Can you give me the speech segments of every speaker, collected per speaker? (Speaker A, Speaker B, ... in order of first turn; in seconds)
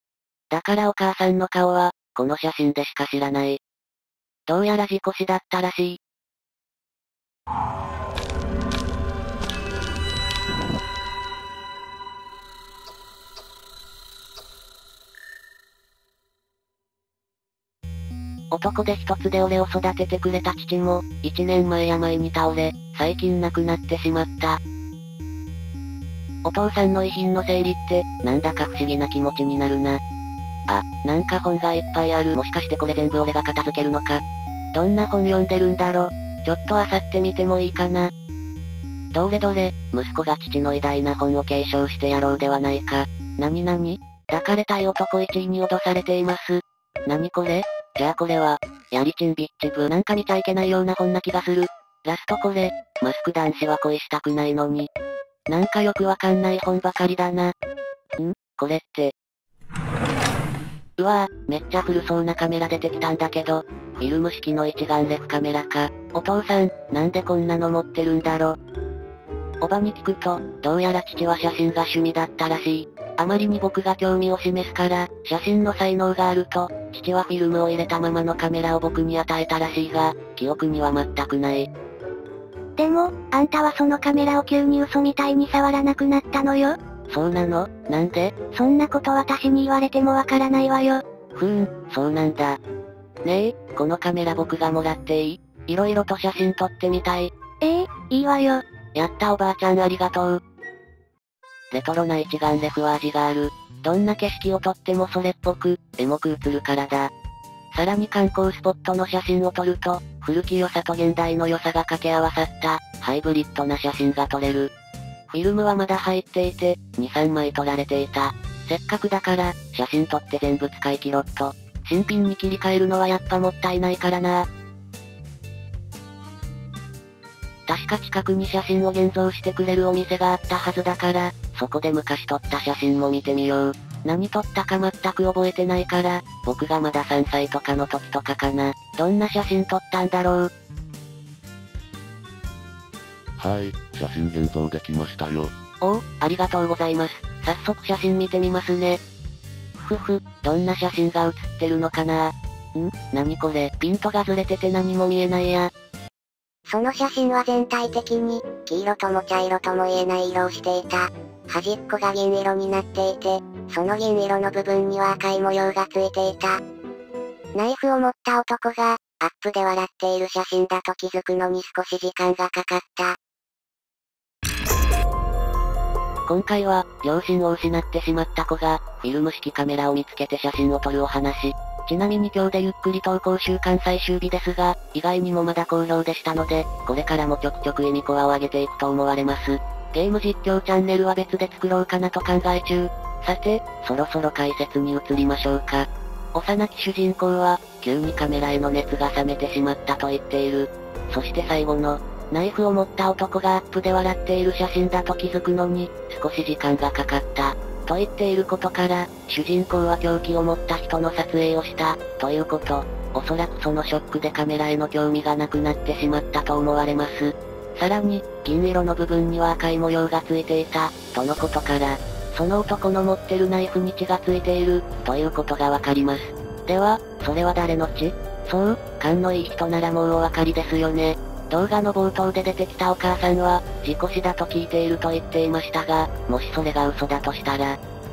Speaker A: 0.5-3.6, 4.5-6.0, 18.5-24.6, 26.4-30.0, 30.7-34.2, 34.7-38.1, 39.1-54.9, 55.5-57.5, 58.2-59.2, 61.0-68.6, 69.6-81.7, 87.1-88.6, 91.3-92.6, 93.2-97.3, 98.9-100.4, 101.7-107.1, 107.7-114.7, 115.3-124.5, 127.7-140.5, 145.8-149.0, 149.8-155.7, 176.3-237.8
Speaker B: 82.8-86.8, 88.6-91.0, 97.6-98.6
Speaker C: 143.4-145.6
Speaker D: 156.7-166.6, 167.6-173.2